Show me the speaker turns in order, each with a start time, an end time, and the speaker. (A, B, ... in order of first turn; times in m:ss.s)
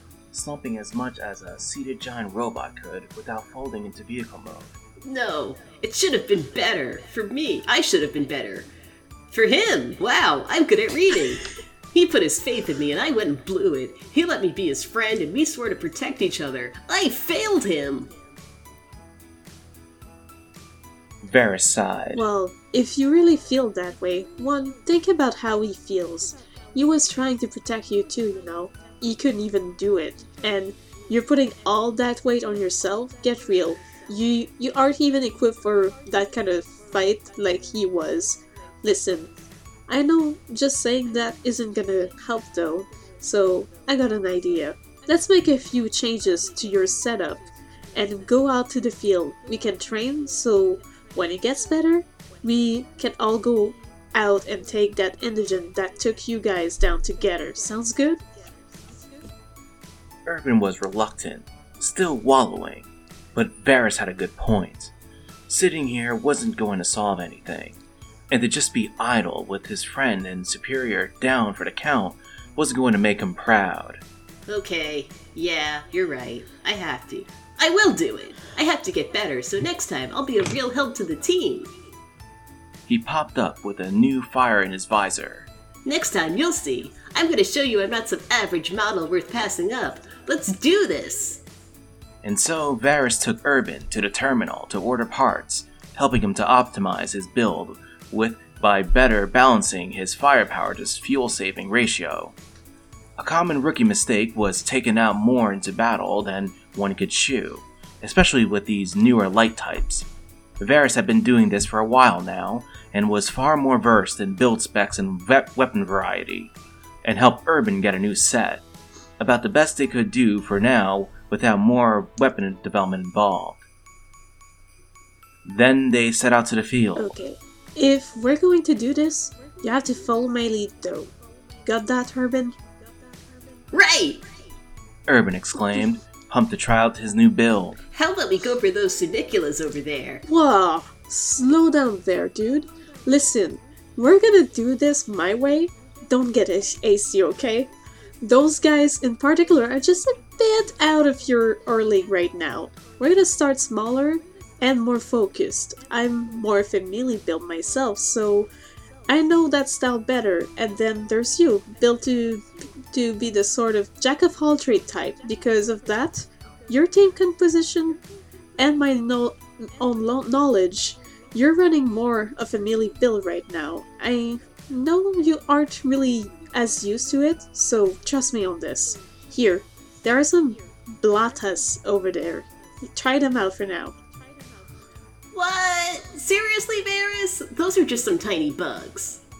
0:00.3-0:04.7 A
0:05.0-0:08.7 B
0:09.3-0:18.1 B
0:21.2-0:22.2 A
0:22.1-0:39.3 C
0:39.9-0:58.2 C
1:00.2-1:04.9 A
1:05.5-1:07.8 A
1:08.3-1:14.0 A
1:14.5-1:21.7 B
1:22.9-1:25.5 A
1:25.8-1:31.4 B
1:32.2-1:42.3 A
1:43.2-1:50.0 A
1:50.6-1:56.5 A
1:57.0-1:58.6 A
1:59.2-2:03.6 A
2:05.4-2:07.1 A
2:07.0-2:11.1 C
2:11.6-2:12.5 C
2:13.7-2:14.2 B
2:15.1-2:17.8 A
2:17.9-2:20.2 B
2:20.2-2:27.7 C
2:28.2-2:38.5 C
2:39.1-2:48.0 C
2:48.6-3:03.9 C
3:05.3-3:09.2 B